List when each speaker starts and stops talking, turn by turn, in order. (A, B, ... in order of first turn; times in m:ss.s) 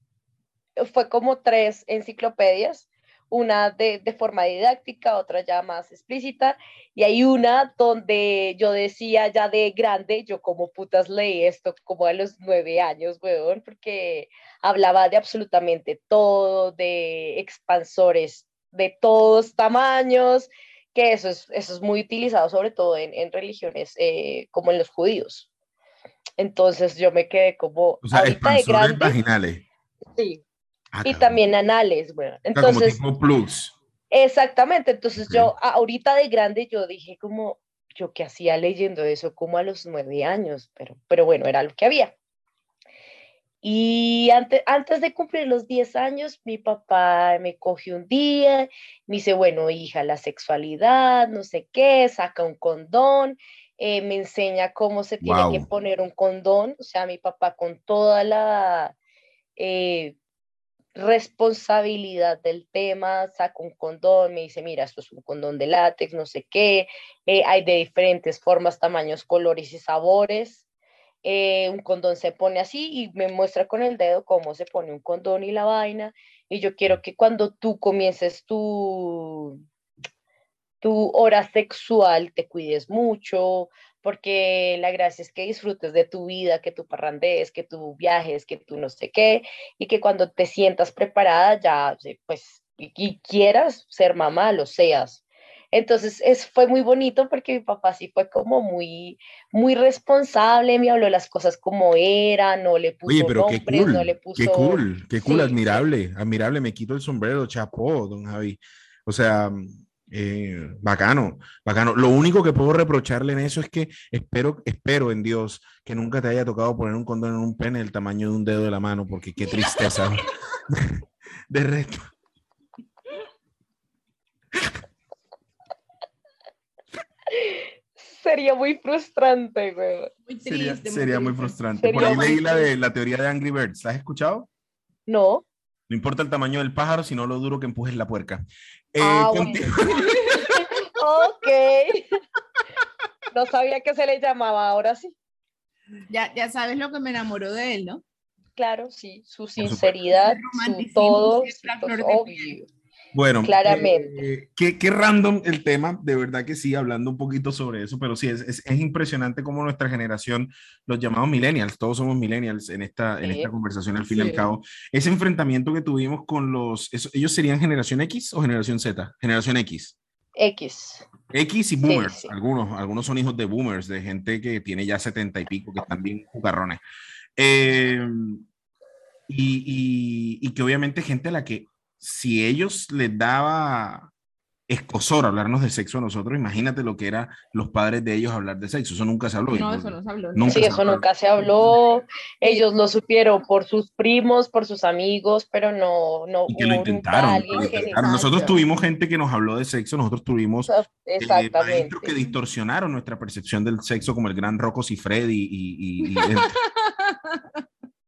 0:00.8-0:25.5 A
0:26.4-0:29.1 A
0:28.0-0:29.6 B
0:30.2-0:30.4 A
0:30.9-0:31.4 B
0:31.0-0:33.0 A
0:32.5-0:33.7 B
0:34.1-0:42.1 A
0:35.2-0:35.5 B
0:43.6-0:59.0 A
0:55.2-0:55.6 B
0:59.6-1:00.2 A
1:00.9-1:10.6 A
1:11.2-1:19.6 A
1:20.8-1:35.2 A
1:35.7-1:45.8 A
1:43.0-2:02.1 B
2:07.3-2:10.1 A
2:10.3-2:12.4 C
2:10.4-2:14.5 B
2:11.8-2:12.6 A
2:15.1-2:15.4 A
2:15.9-2:20.4 B
2:19.0-2:19.7 A
2:19.9-2:20.6 C
2:20.4-2:22.0 A
2:23.3-2:25.1 A
2:26.1-2:28.0 C
2:28.6-2:32.7 A
2:29.6-2:29.9 B
2:30.1-2:32.6 C
2:33.1-2:50.0 B
2:33.4-2:34.2 A
2:43.2-2:43.5 A
2:44.1-2:44.5 C
2:50.4-2:51.1 A
2:51.3-2:56.8 B
2:51.8-2:52.3 A
2:57.4-2:58.4 B
2:59.3-3:04.1 B
3:04.7-3:11.0 B
3:09.5-3:10.8 C
3:10.5-3:18.6 A
3:16.5-3:26.5 B
3:17.4-3:18.5 C
3:20.7-3:22.1 A
3:26.0-3:27.6 C